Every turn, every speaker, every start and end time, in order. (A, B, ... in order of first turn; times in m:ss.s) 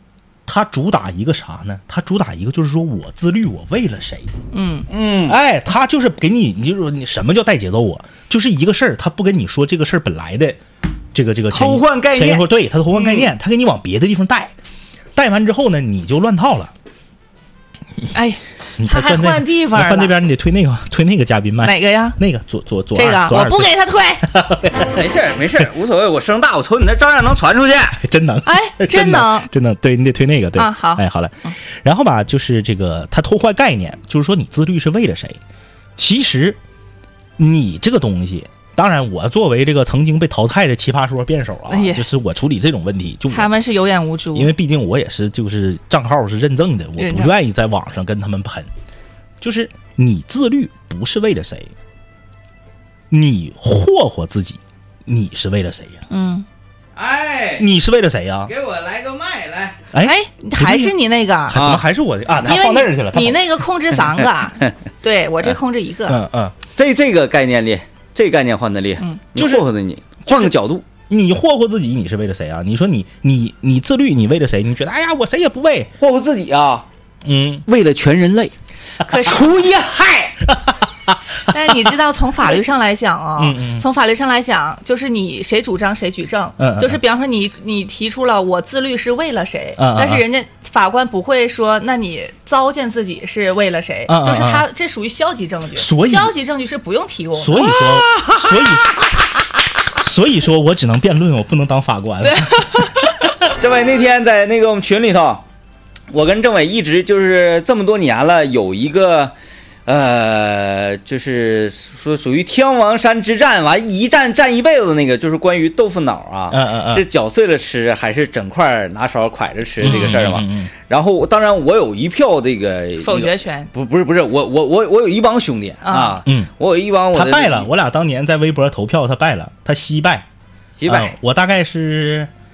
0:00.5-0:04.3 A
0:04.5-0:04.9 B
0:04.9-0:05.4 C
0:05.3-0:10.6 A
0:11.1-0:14.5 A
0:11.5-0:13.3 C
0:15.2-0:16.7 A
0:18.1-0:20.2 B
0:18.8-0:23.7 A
0:21.6-0:22.2 B
0:22.9-0:24.3 B
0:24.2-0:25.0 A
0:24.9-0:28.0 C
0:28.0-0:35.4 A
0:28.5-0:29.5 B
0:30.6-0:31.5 B
0:36.0-0:36.6 A
0:37.4-0:43.6 A
0:41.7-0:42.1 B
0:43.3-0:44.5 B
0:44.3-0:48.7 A
0:47.0-0:47.3 B
0:49.4-0:51.7 A
0:53.1-0:56.0 A
0:56.1-0:56.5 B
0:57.0-0:57.7 C
0:57.6-0:58.5 A
0:58.4-0:59.8 C
0:59.9-1:00.9 A
1:00.0-1:01.7 B
1:01.5-1:03.6 A
1:01.5-1:01.8 C
1:02.4-1:06.2 B
1:06.1-1:06.6 A
1:06.8-1:10.9 C
1:09.4-1:09.6 A
1:10.3-1:10.5 A
1:11.1-1:15.9 A
1:16.0-1:16.9 C
1:17.2-1:17.7 A
1:17.7-1:18.5 C
1:19.0-1:19.5 B
1:19.2-1:20.4 C
1:21.5-1:37.8 B
1:23.4-1:23.8 A
1:26.6-1:27.0 A
1:29.8-1:30.2 A
1:34.1-1:34.7 A
1:35.8-1:36.3 A
1:37.4-1:38.9 A
1:38.1-1:38.4 C
1:40.0-1:42.9 A
1:42.2-1:43.2 B
1:43.5-1:45.4 C
1:46.1-1:49.3 C
1:49.9-2:07.7 C
1:56.5-1:57.0 A
1:59.8-2:00.7 A
1:59.8-2:00.2 B
2:03.0-2:03.7 B
2:05.8-2:06.2 B
2:06.2-2:06.5 A
2:07.1-2:10.3 A
2:10.8-2:11.1 C
2:10.9-2:12.3 A